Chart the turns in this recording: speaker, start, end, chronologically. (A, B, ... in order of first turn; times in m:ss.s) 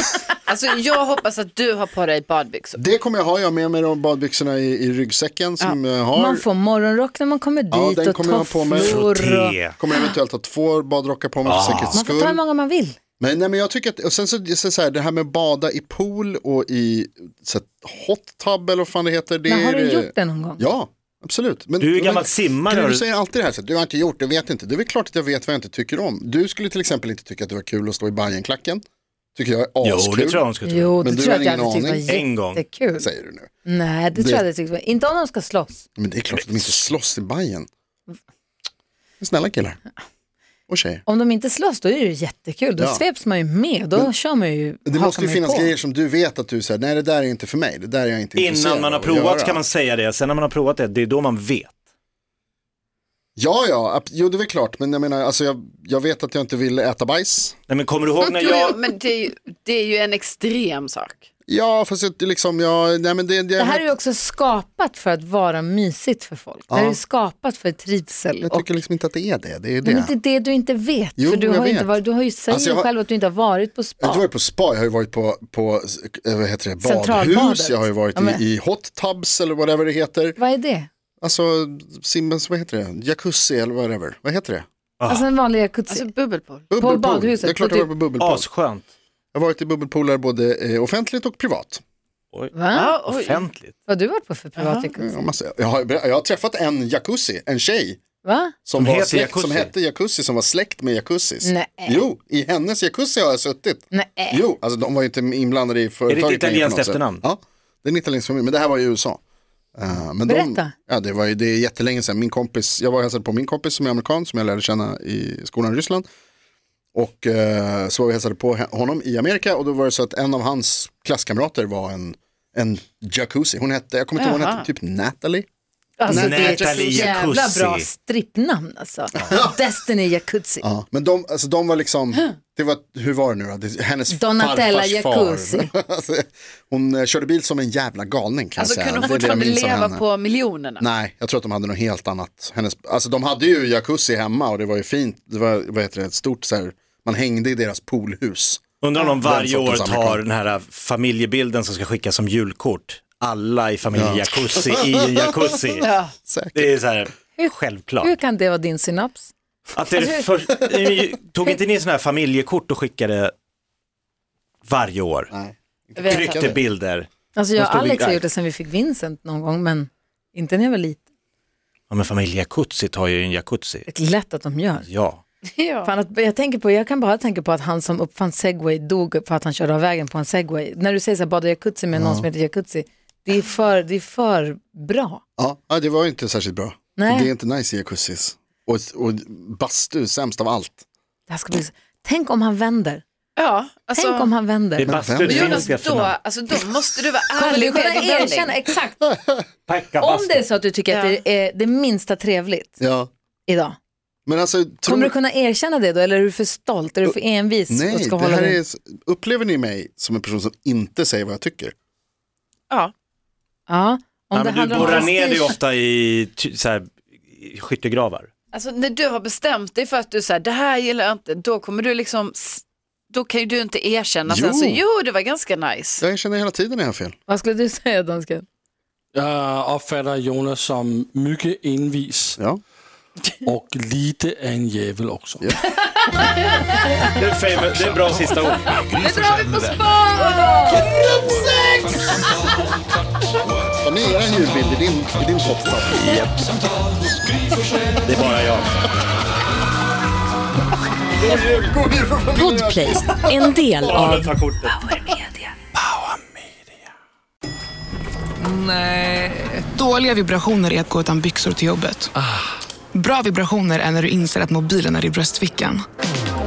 0:00.5-0:02.8 A
0:02.8-0:06.4 B
0:06.1-0:09.5 C
0:07.7-0:09.0 B
0:08.8-0:09.8 D
0:09.8-0:12.4 B
0:11.4-0:12.0 D
0:11.9-0:13.0 C
0:13.2-0:28.8 B
0:19.5-0:20.6 C
0:21.8-0:23.0 D
0:29.3-0:30.4 B
0:29.8-0:31.0 D
0:30.6-0:33.1 C
0:31.0-0:32.1 B
0:32.0-0:32.6 D
0:33.0-0:33.5 B
0:33.6-0:35.8 C
0:34.1-0:34.4 B
0:36.0-0:37.7 B
0:36.4-0:36.9 D
0:39.2-0:39.8 B
0:40.7-0:41.0 B
0:41.0-0:45.7 C
0:42.8-0:43.0 B
0:44.8-0:49.6 B
0:48.4-0:51.7 D
0:53.4-0:57.6 B
0:57.7-0:58.8 D
0:58.2-1:01.2 A
1:01.5-1:03.9 B
1:03.6-1:08.6 C
1:06.7-1:07.0 B
1:08.4-1:10.1 B
1:09.8-1:14.2 C
1:11.2-1:12.9 B
1:14.0-1:20.4 B
1:16.8-1:18.4 C
1:20.4-1:20.9 C
1:21.2-1:24.6 B
1:25.0-1:25.2 D
1:25.1-1:26.0 C
1:25.9-1:26.7 A
1:26.7-1:28.5 B
1:26.8-1:27.9 C
1:28.2-1:28.8 D
1:29.3-1:31.8 B
1:32.3-1:33.8 D
1:32.5-1:32.9 C
1:32.7-1:33.4 A
1:33.8-1:35.2 C
1:34.6-1:34.8 A
1:35.0-1:38.0 B
1:38.2-1:38.5 C
1:38.6-1:49.2 B
1:38.8-1:39.7 D
1:41.4-1:42.0 C
1:43.9-1:44.4 C
1:46.1-1:47.2 D
1:49.8-1:56.0 B
1:50.3-1:50.7 C
1:56.9-2:05.5 B
2:04.2-2:04.7 A
2:06.0-2:10.6 C
2:06.1-2:07.2 B
2:06.1-2:07.8 D
2:09.2-2:09.6 B
2:10.6-2:20.0 B
2:14.1-2:15.7 C
2:18.6-2:20.8 A
2:20.8-2:28.6 B
2:28.8-2:35.9 D
2:29.2-2:30.2 B
2:33.9-2:35.5 B
2:35.8-2:36.1 A
2:36.3-2:36.8 B
2:36.5-2:38.1 D
2:37.4-2:39.3 C
2:39.7-2:43.3 D
2:39.9-2:40.3 C
2:44.6-2:45.3 D
2:45.3-2:46.6 B
2:46.0-2:46.6 A
2:46.0-2:48.2 D
2:47.3-2:51.0 C
2:51.9-2:53.9 D
2:53.9-2:54.9 C
2:54.8-2:55.2 D
2:55.4-2:55.9 A
2:55.8-3:05.2 C
3:01.9-3:02.2 B
3:05.4-3:10.8 B
3:07.0-3:07.3 C
3:11.3-3:13.0 C
3:13.4-3:14.3 A
3:13.9-3:14.9 C
3:14.8-3:16.2 D
3:14.8-3:15.7 B
3:15.3-3:18.5 A
3:17.4-3:19.0 C
3:19.7-3:20.4 D
3:20.0-3:22.7 C
3:20.9-3:21.2 A
3:22.8-3:23.1 B
3:23.5-3:23.8 C
3:24.2-3:25.1 B
3:24.8-3:28.6 C
3:27.7-3:31.7 B
3:33.7-3:35.5 C
3:34.3-3:38.3 D
3:34.8-3:35.0 A
3:38.5-3:46.0 A
3:44.2-3:44.8 B
3:46.0-3:47.1 B
3:47.3-3:48.4 C
3:49.1-3:52.4 E
3:53.4-3:55.5 E
3:56.1-3:57.0 C
3:57.1-3:58.8 D
3:57.5-4:00.1 F
3:59.0-4:01.2 C
4:00.7-4:02.4 F
4:02.1-4:02.6 E
4:03.4-4:03.8 F
4:03.8-4:06.2 B
4:06.5-4:07.9 E
4:08.0-4:08.7 D
4:11.2-4:13.5 B
4:12.4-4:14.3 G
4:13.7-4:14.9 D
4:18.4-4:22.1 H
4:22.9-4:25.8 H